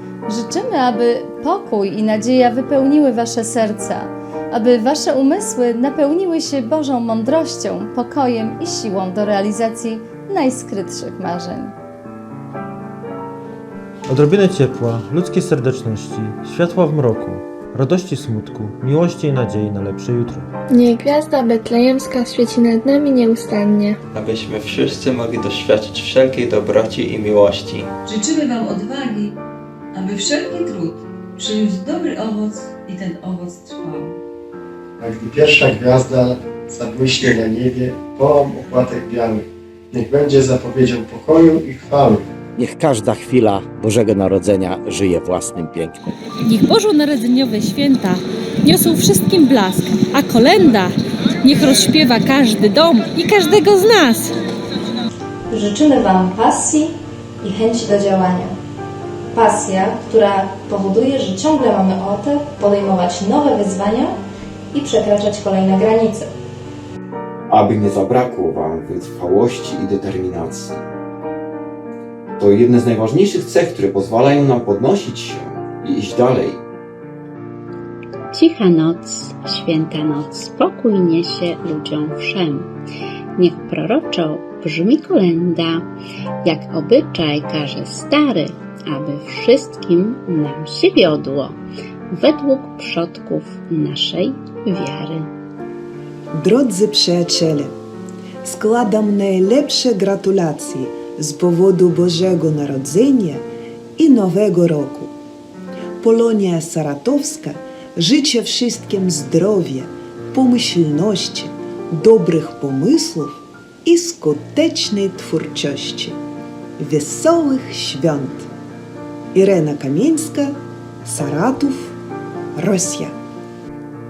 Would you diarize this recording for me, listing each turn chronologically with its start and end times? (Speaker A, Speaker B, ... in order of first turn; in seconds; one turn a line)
Speaker A: 0.3-11.7
Speaker B: 14.1-20.5
Speaker C: 20.7-24.0
Speaker D: 24.1-27.9
Speaker E: 28.1-29.3
Speaker E: 29.9-34.2
Speaker F: 35.0-42.2
Speaker G: 42.6-46.1
Speaker H: 46.5-54.3
Speaker A: 55.5-58.5
Speaker A: 59.3-64.1
Speaker A: 64.7-66.3
Speaker I: 67.5-70.8
Speaker I: 72.4-76.5
Speaker J: 78.3-82.7
Speaker J: 83.4-85.9
Speaker J: 86.4-91.6
Speaker J: 92.1-95.3
Speaker K: 96.3-97.7
Speaker K: 98.4-103.5
Speaker K: 104.0-105.1
Speaker K: 106.0-116.2
Speaker K: 116.8-118.5
Speaker K: 119.3-122.0
Speaker K: 122.6-123.1